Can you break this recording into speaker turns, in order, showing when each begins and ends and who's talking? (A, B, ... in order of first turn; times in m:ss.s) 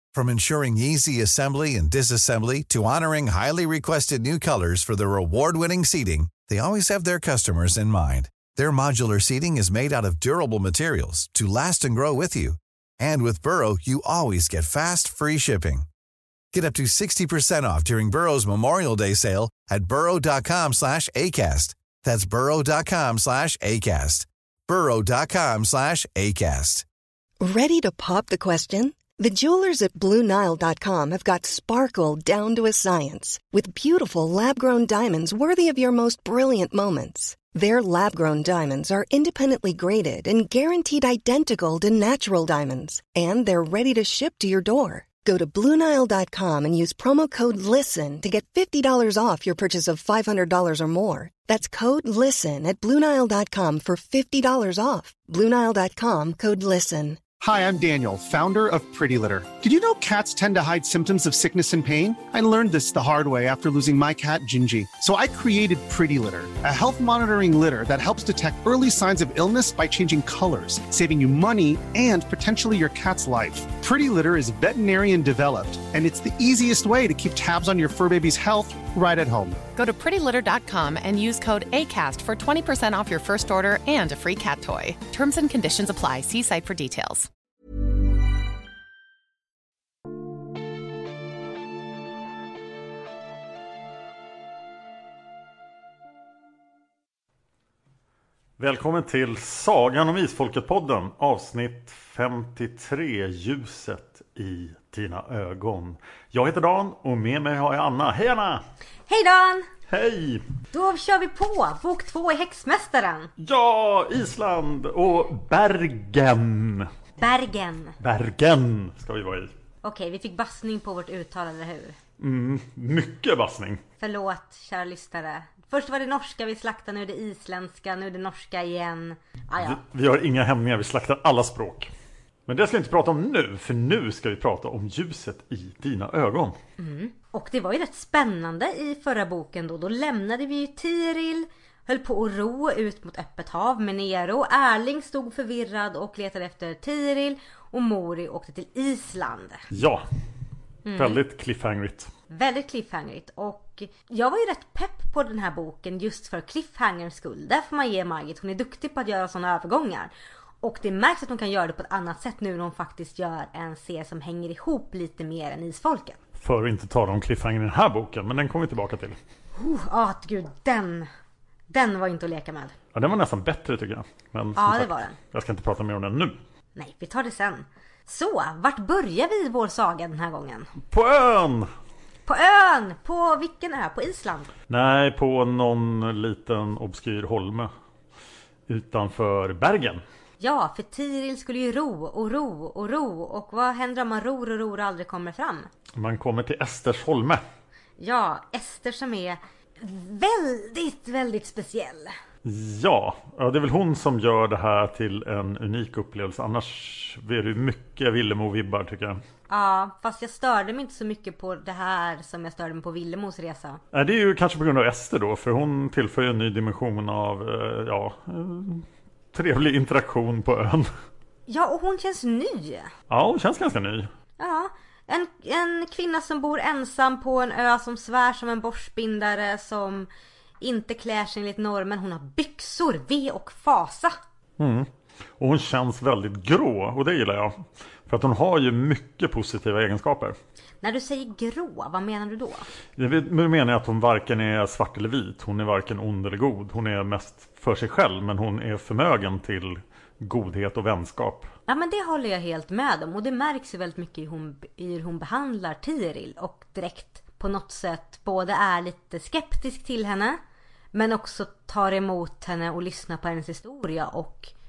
0:00.1-0:15.9 A
0:16.5-0:26.9 A
0:27.4-0:57.3 B
0:57.4-1:19.6 C
1:19.8-1:27.3 D
1:38.6-1:48.6 E
1:49.1-1:49.7 F
1:49.9-1:50.4 E
1:50.7-1:53.3 F
1:53.4-1:56.9 E
1:57.2-1:58.0 F
1:58.0-1:59.5 E
1:59.8-2:02.0 F
2:02.2-2:03.8 E
2:04.0-2:09.8 F
2:09.6-2:11.9 E
2:12.5-2:16.6 E
2:16.8-2:29.6 F
2:29.7-2:30.1 E
2:30.8-2:31.2 F
2:31.0-2:32.1 E
2:32.3-2:46.2 F
2:46.4-2:49.2 E
2:49.6-2:51.1 F
2:51.7-2:52.8 F
2:52.9-2:56.4 E
2:54.6-2:55.2 F
2:56.8-3:00.7 F
3:00.9-3:01.7 E
3:02.3-3:04.5 F
3:04.7-3:07.7 E
3:08.7-3:10.0 E
3:10.4-3:15.7 F
3:16.0-3:17.4 E
3:18.0-3:22.2 F
3:22.4-3:29.2 E
3:29.5-3:33.8 F
3:33.9-3:40.9 E
3:41.5-3:42.9 F
3:43.1-3:44.1 E
3:44.4-3:50.1 F
3:50.6-3:54.2 F
3:54.6-3:54.9 E
3:55.4-4:00.4 E
4:00.8-4:02.7 F
4:03.0-4:11.5 E
4:11.7-4:20.4 F
4:20.9-4:24.5 F